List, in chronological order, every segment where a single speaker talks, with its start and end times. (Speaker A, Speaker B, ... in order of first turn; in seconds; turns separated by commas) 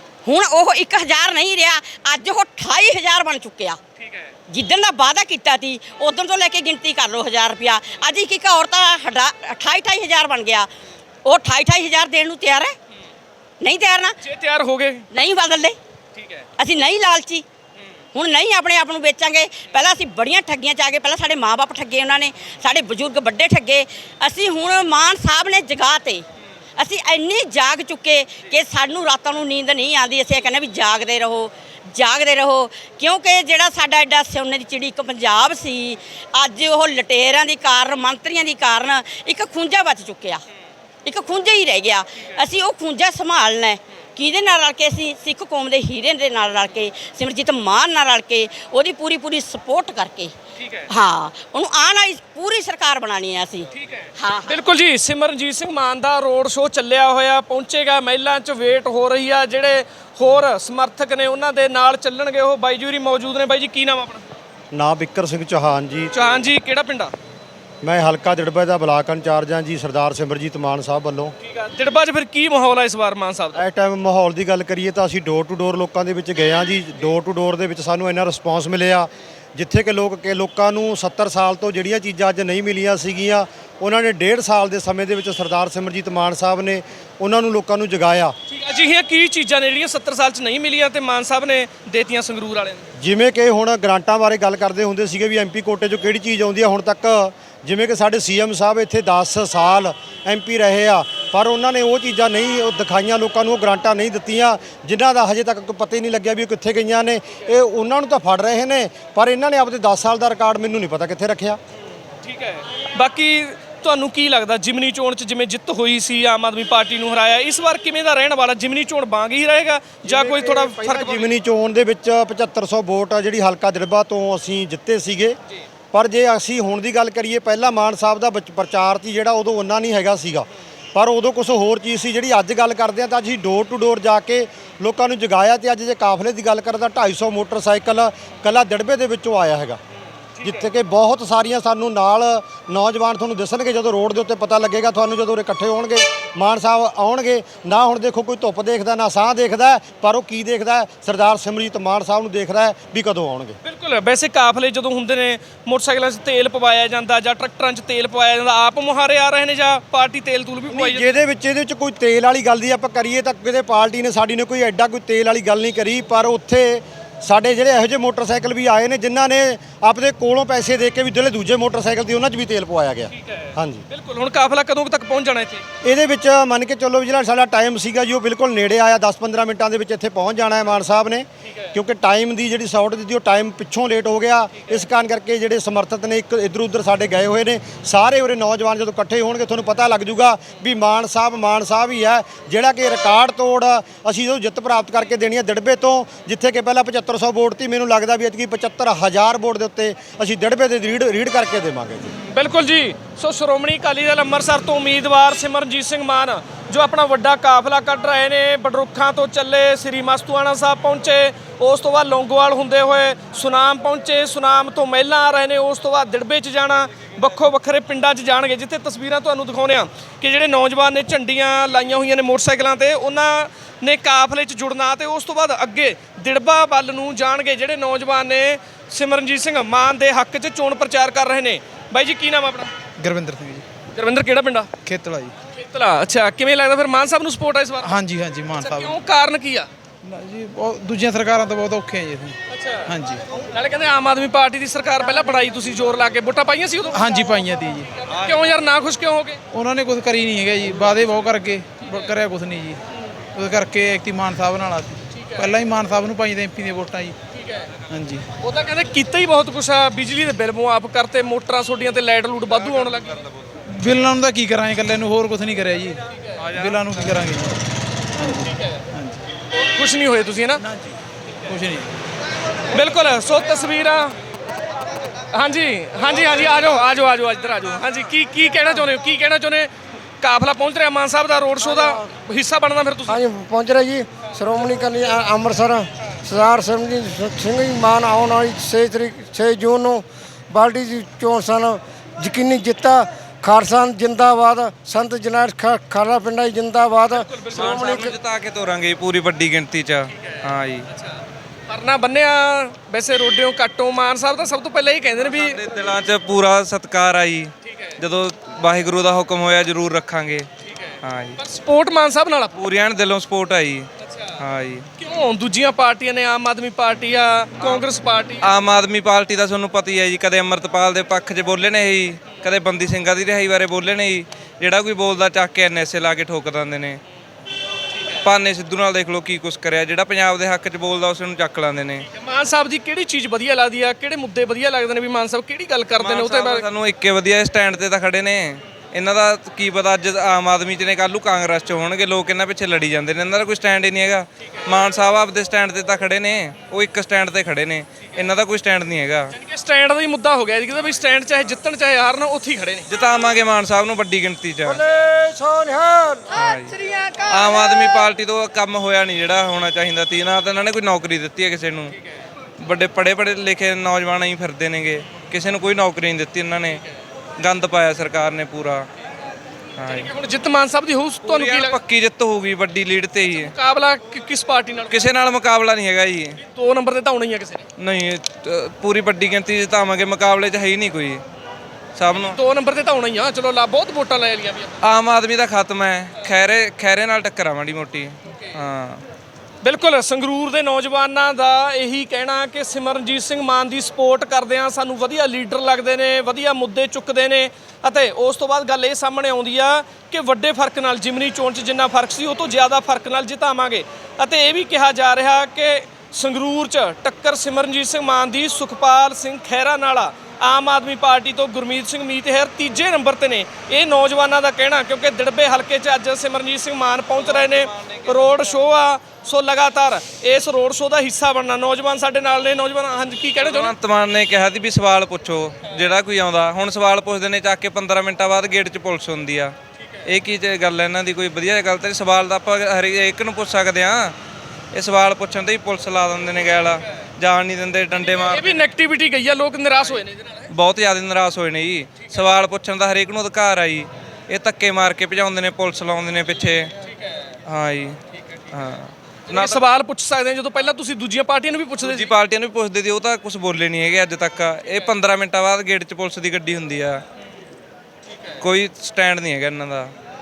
Speaker A: 0.2-3.8, Speaker B: 4.0-4.3, Speaker A: 4.5-10.7, Speaker A: 11.2-12.8, Speaker A: 13.6-14.2, Speaker B: 14.2-15.1, Speaker A: 15.1-15.8, Speaker B: 16.1-16.4, Speaker A: 16.6-17.4, Speaker A: 18.1-26.2, Speaker A: 26.8-40.4, Speaker A: 41.0-50.3, Speaker B: 50.6-50.9, Speaker A: 50.9-54.6, Speaker B: 53.7-64.2, Speaker C: 64.7-66.2, Speaker B: 66.1-67.1, Speaker C: 67.8-71.3, Speaker B: 71.4-73.6, Speaker C: 73.5-88.3, Speaker B: 88.5-92.8, Speaker C: 93.0-111.6, Speaker B: 112.2-121.3, Speaker C: 120.0-125.4, Speaker C: 125.9-139.8, Speaker C: 140.4-153.6, Speaker B: 153.6-161.2, Speaker C: 160.7-173.8, Speaker B: 173.2-175.6, Speaker C: 175.8-202.1, Speaker B: 202.3-232.7, Speaker D: 233.0-233.7, Speaker B: 233.9-234.7, Speaker D: 234.8-235.3, Speaker B: 235.6-238.0, Speaker D: 237.8-239.0, Speaker B: 238.6-239.7, Speaker D: 240.0-243.2, Speaker B: 242.5-242.9, Speaker B: 243.5-249.4, Speaker D: 246.9-247.9, Speaker D: 249.5-252.8, Speaker B: 251.8-252.1, Speaker D: 253.3-257.1, Speaker B: 255.2-255.5, Speaker B: 257.4-257.7, Speaker D: 257.9-258.2, Speaker B: 258.4-263.2, Speaker D: 263.7-267.6, Speaker E: 266.4-266.9, Speaker D: 268.1-269.2, Speaker B: 269.7-270.6, Speaker D: 270.6-272.0, Speaker B: 272.7-274.1, Speaker B: 275.3-279.7, Speaker B: 280.2-283.2, Speaker F: 283.1-298.1, Speaker B: 297.1-298.0, Speaker E: 297.5-300.9, Speaker B: 301.7-305.6, Speaker E: 305.2-310.5, Speaker B: 310.7-312.6, Speaker E: 311.0-311.4, Speaker E: 312.6-314.9, Speaker B: 315.0-318.5, Speaker E: 318.4-327.0, Speaker E: 328.2-332.1, Speaker B: 332.1-336.6, Speaker E: 336.0-349.3, Speaker B: 349.4-352.9, Speaker E: 352.9-354.8, Speaker F: 354.6-357.7, Speaker E: 356.3-356.8, Speaker E: 357.3-361.9, Speaker E: 362.6-366.8, Speaker E: 367.4-368.9, Speaker E: 369.8-370.1, Speaker B: 369.9-371.8, Speaker E: 371.2-373.5, Speaker B: 373.3-375.1, Speaker E: 374.9-376.4, Speaker B: 376.5-377.6, Speaker E: 377.8-381.2, Speaker E: 381.9-382.4, Speaker B: 382.1-384.7, Speaker E: 384.8-389.0, Speaker B: 389.6-423.7, Speaker E: 417.2-418.2, Speaker E: 423.4-429.5, Speaker E: 430.1-434.1, Speaker E: 434.7-438.5, Speaker B: 438.2-440.5, Speaker E: 440.5-446.7, Speaker E: 447.5-448.0, Speaker E: 448.5-449.6, Speaker B: 449.3-452.1, Speaker E: 451.8-457.0, Speaker E: 458.4-459.9